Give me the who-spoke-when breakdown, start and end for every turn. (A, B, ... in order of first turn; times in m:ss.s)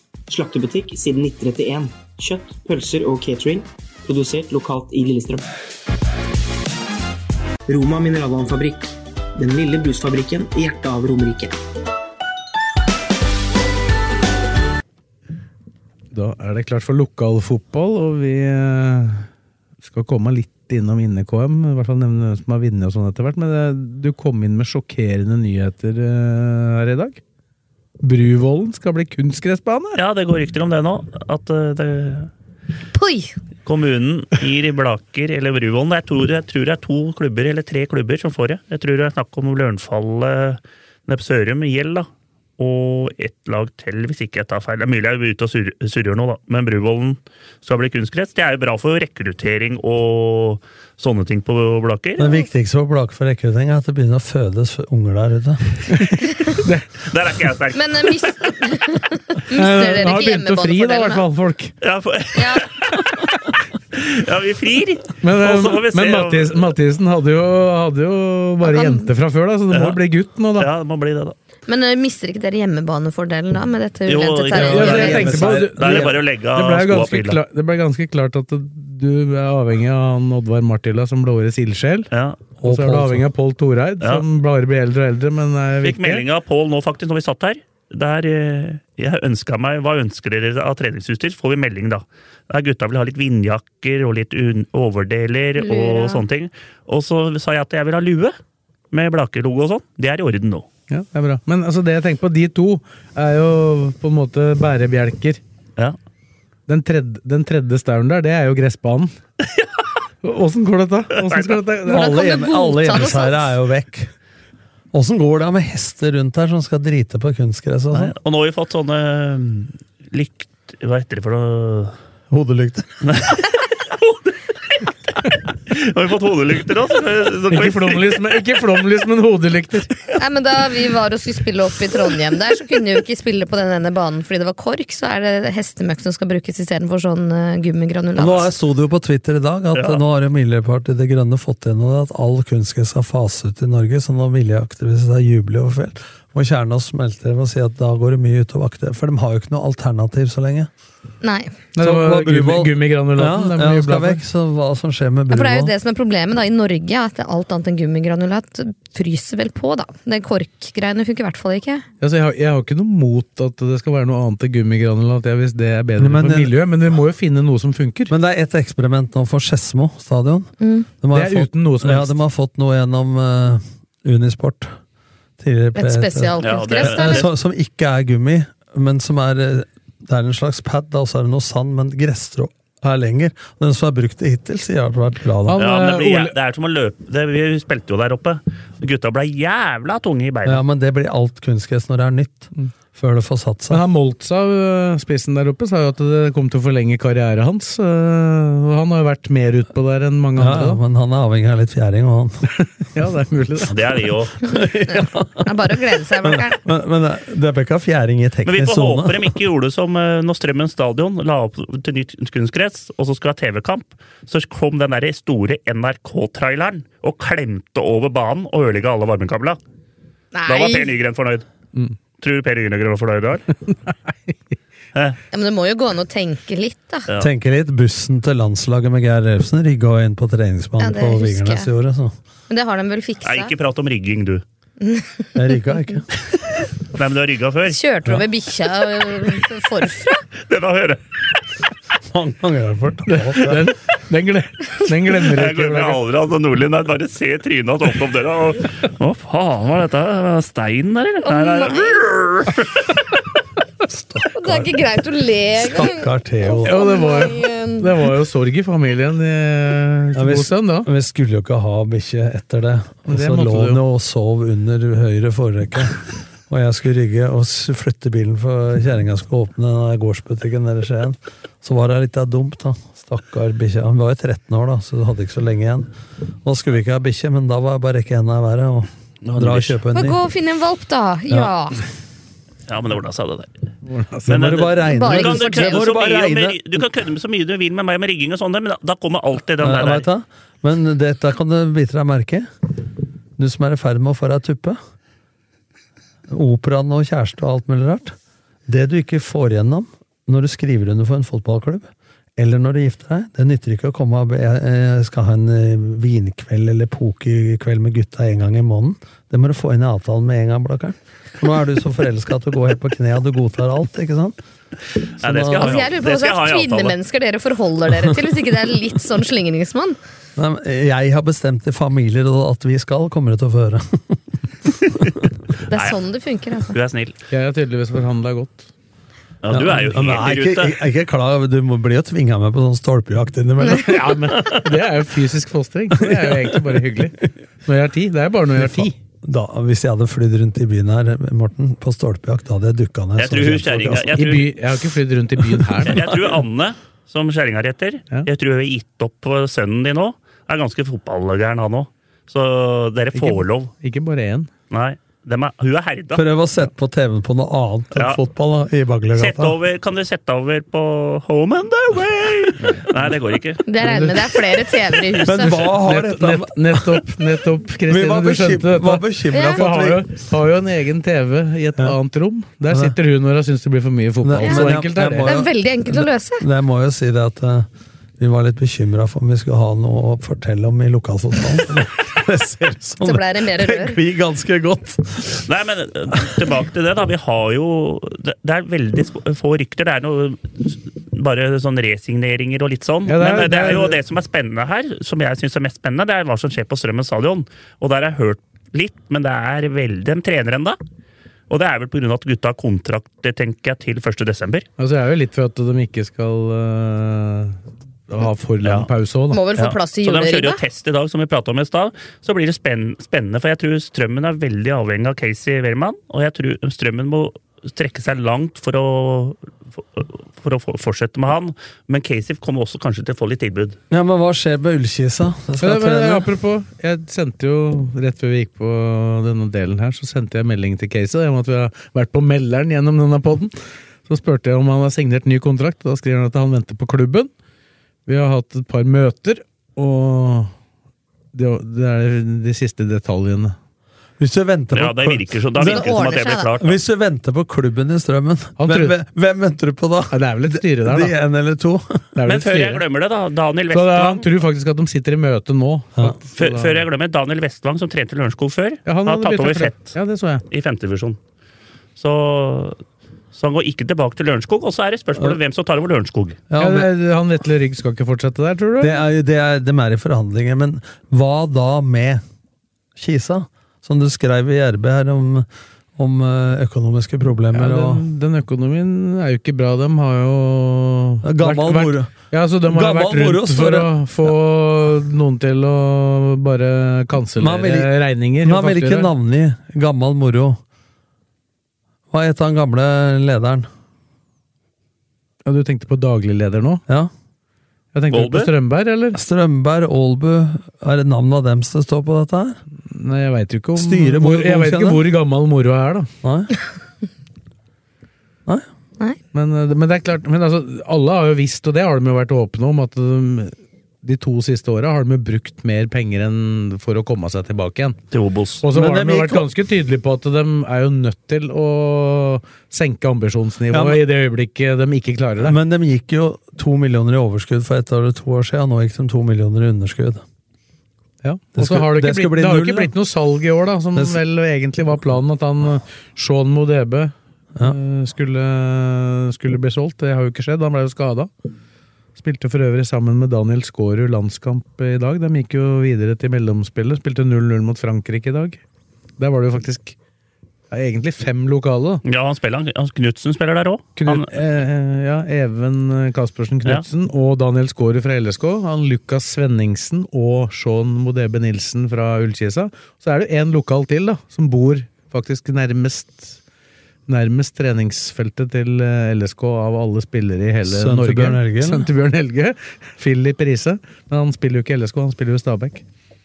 0:00.3-0:05.5 A
0:07.7-0:11.6 A
0:16.1-0:19.3 B
0:19.8-0:27.2 B
0:28.0-0:30.0 B
0:30.0-0:32.3 C
0:32.9-0:33.4 D
0:33.6-0:52.4 C
0:52.2-0:55.8 E
0:55.9-0:56.9 B
0:57.0-0:58.5 C
0:57.7-1:01.3 D
0:59.5-1:01.8 B
1:01.8-1:03.0 C
1:02.4-1:02.7 D
1:02.9-1:03.4 B
1:03.9-1:06.7 C
1:05.2-1:10.7 B
1:08.6-1:09.1 D
1:09.7-1:10.0 C
1:10.6-1:11.4 C
1:11.7-1:15.5 D
1:14.1-1:17.4 C
1:14.5-1:22.1 B
1:14.5-1:16.2 E
1:22.1-1:22.4 C
1:22.6-1:23.2 E
1:22.6-1:26.3 B
1:25.8-1:38.4 C
1:35.6-1:36.2 D
1:38.9-1:40.7 C
1:40.9-1:45.4 B
1:46.7-1:49.1 B
1:50.2-1:52.2 B
1:51.2-1:51.6 C
1:51.9-1:53.5 D
1:51.9-1:54.1 E
1:54.9-1:58.1 E
1:57.9-2:02.0 C
2:02.3-2:03.1 E
2:03.1-2:04.3 C
2:05.7-2:08.2 C
2:07.5-2:10.0 B
2:10.2-2:18.5 D
2:18.2-2:30.7 E
2:19.8-2:20.0 C
2:31.2-2:31.6 D
2:31.8-2:34.2 B
2:31.8-2:35.7 E
2:35.3-2:41.9 D
2:42.0-2:48.1 B
2:46.0-2:46.6 E
2:48.1-2:54.8 E
2:50.6-2:50.9 D
2:51.1-2:52.2 B
2:55.4-3:05.6 E
2:55.8-2:57.3 D
2:56.4-2:57.3 C
3:05.4-3:06.4 B
3:05.6-3:10.6 C
3:10.4-3:13.8 E
3:13.7-3:20.8 B
3:20.4-3:22.5 E
3:22.6-3:23.8 B
3:23.7-3:24.4 C
3:24.4-3:29.3 E
3:24.5-3:26.6 D
3:28.4-3:39.6 C
3:40.3-3:40.9 D
3:40.5-3:41.5 C
3:42.2-3:43.5 C
3:43.7-3:44.4 B
3:45.3-3:47.1 D
3:47.2-3:52.2 E
3:50.8-3:51.7 D
3:52.5-3:53.5 D
3:53.2-3:54.4 C
3:54.8-3:55.6 D
3:55.4-3:56.1 E
3:56.9-3:57.8 C
3:57.7-4:00.2 D
4:00.4-4:01.0 C
4:02.1-4:03.7 E
4:03.1-4:06.0 B
4:05.3-4:12.6 C
4:11.3-4:12.0 D
4:13.9-4:14.7 E
4:14.3-4:18.0 D
4:15.6-4:16.8 E
4:16.6-4:20.9 B
4:20.1-4:35.9 E
4:23.1-4:23.8 B
4:36.4-4:40.2 E
4:39.3-4:39.8 C
4:39.9-4:41.8 D
4:42.7-4:43.5 C
4:43.8-4:44.9 B
4:44.3-4:46.6 E
4:44.3-4:50.0 C
4:44.9-4:45.9 D
4:49.6-4:52.5 E
4:53.4-4:54.8 E
4:56.3-4:58.2 E
4:58.7-5:14.4 E
5:15.2-5:17.0 C
5:15.2-5:15.8 E
5:15.6-5:20.0 D
5:20.4-5:24.2 E
5:25.7-5:26.8 D
5:25.7-5:26.0 C
5:26.7-5:27.2 C
5:27.3-5:28.7 B
5:29.4-5:30.8 C
5:29.5-5:34.6 E
5:33.7-5:39.0 B
5:36.1-5:36.8 E
5:38.6-5:44.2 E
5:43.2-5:44.5 C
5:44.2-5:46.1 B
5:45.9-5:53.7 C
5:53.1-5:54.5 B
5:54.7-5:56.3 C
5:56.2-5:59.6 E
5:59.2-6:03.7 C
6:03.7-6:05.7 D
6:03.8-6:04.2 B
6:05.2-6:07.1 E
6:05.8-6:15.4 B
6:07.9-6:10.0 E
6:09.3-6:09.6 D
6:12.7-6:13.0 E
6:14.2-6:17.7 E
6:14.4-6:16.4 D
6:18.2-6:25.4 E
6:23.0-6:24.0 D
6:25.5-6:40.8 C
6:33.1-6:34.0 B
6:41.5-6:44.7 C
6:44.8-6:49.4 B
6:48.6-6:48.9 C
6:49.3-6:50.6 D
6:49.6-7:03.8 C
7:03.9-7:06.3 E
7:05.6-7:13.5 B
7:14.1-7:17.3 B
7:18.1-7:20.5 B
7:21.3-7:23.6 B
7:24.2-7:32.0 E
7:24.7-7:26.8 C
7:25.6-7:26.5 D
7:28.6-7:29.0 B
7:30.1-7:31.1 B
7:32.2-7:32.8 B
7:32.3-7:34.3 C
7:33.7-7:36.8 B
7:36.4-7:39.9 C
7:38.9-7:40.4 B
7:40.5-7:41.2 C
7:42.0-7:42.8 C
7:43.3-7:46.4 C
7:46.5-7:46.9 E
7:46.6-7:49.0 B
7:48.8-7:52.2 E
7:53.0-7:58.0 E
7:57.5-8:09.1 B
8:01.2-8:04.3 E
8:07.4-8:10.6 E
8:12.1-8:13.7 E
8:15.4-8:16.8 B
8:17.9-8:19.2 B
8:18.1-8:18.5 C
8:19.1-8:22.6 E
8:22.9-8:26.1 B
8:23.8-8:25.0 E
8:26.2-8:26.5 E
8:29.3-8:38.0 B
8:38.1-8:38.6 C
8:38.6-8:45.6 B
8:38.7-8:39.5 E
8:43.7-8:44.0 E
8:45.4-8:50.2 E
8:51.2-9:01.3 B
8:51.6-8:52.9 E
9:02.2-9:08.6 B
9:09.2-9:10.0 B
9:10.7-9:12.0 B
9:12.0-9:14.3 C
9:14.0-9:26.4 B
9:27.1-9:35.8 B
9:30.6-9:31.9 E